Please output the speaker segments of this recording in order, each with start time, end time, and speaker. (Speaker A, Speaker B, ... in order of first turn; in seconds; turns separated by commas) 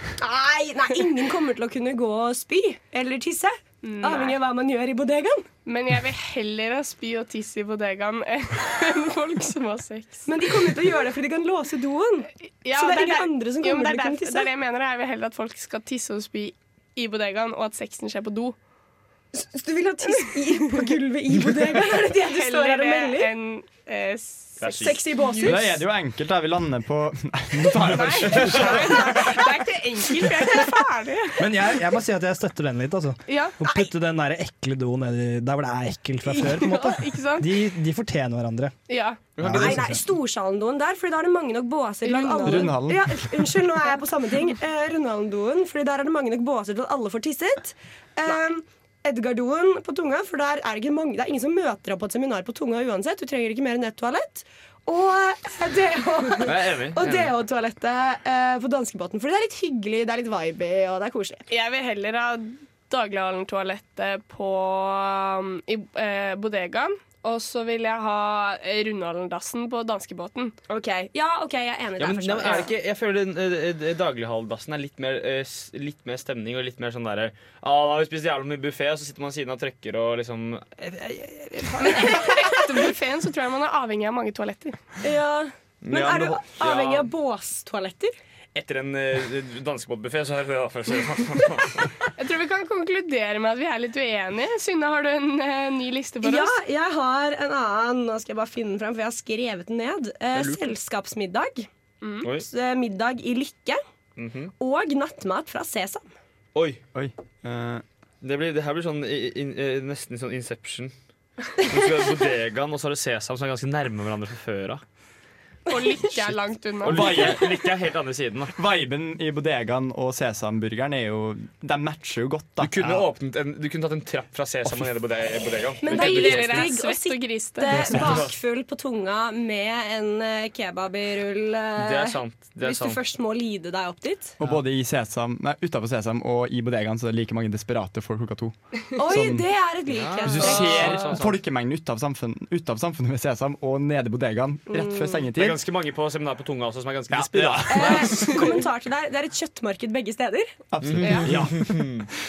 Speaker A: 0.2-5.5, Speaker B: 3.8-4.4, Speaker B: 5.7-10.3, Speaker A: 10.2-14.5, Speaker B: 12.6-18.6, Speaker A: 19.3-23.3, Speaker B: 20.5-20.9, Speaker B: 22.1-25.3, Speaker C: 24.6-25.0, Speaker A: 24.6-25.8, Speaker D: 25.4-29.5, Speaker B: 27.8-31.4, Speaker E: 31.4-38.7, Speaker B: 33.3-33.6, Speaker B: 36.3-37.5, Speaker B: 38.9-39.2, Speaker C: 39.4-39.6, Speaker E: 39.4-40.0, Speaker A: 39.4-61.4, Speaker B: 42.0-42.8, Speaker D: 42.4-43.3, Speaker C: 56.4-57.3, Speaker B: 61.5-70.5, Speaker A: 70.7-72.7, Speaker C: 72.0-81.8, Speaker A: 81.8-82.8, Speaker B: 81.8-84.8, Speaker A: 85.0-88.1, Speaker C: 85.8-87.1, Speaker C: 88.5-91.9, Speaker B: 92.2-96.5, Speaker A: 96.2-101.7, Speaker C: 100.3-100.7, Speaker B: 102.0-102.3, Speaker A: 102.3-103.8, Speaker C: 104.2-104.5, Speaker A: 104.6-106.0, Speaker C: 106.5-106.8, Speaker D: 106.9-107.8, Speaker C: 108.2-110.9, Speaker C: 111.6-114.8, Speaker B: 115.7-117.3, Speaker C: 116.8-118.5, Speaker D: 116.8-117.4, Speaker D: 118.5-123.0, Speaker C: 122.6-126.8, Speaker A: 125.8-134.4, Speaker B: 125.9-127.7, Speaker C: 127.8-128.3, Speaker C: 131.8-133.0, Speaker D: 134.4-139.4, Speaker A: 138.9-141.2, Speaker C: 139.9-141.4, Speaker D: 140.1-145.6, Speaker A: 144.7-145.2, Speaker C: 145.3-148.4, Speaker D: 147.1-148.1, Speaker A: 147.7-150.5, Speaker D: 150.7-151.6, Speaker C: 150.8-152.1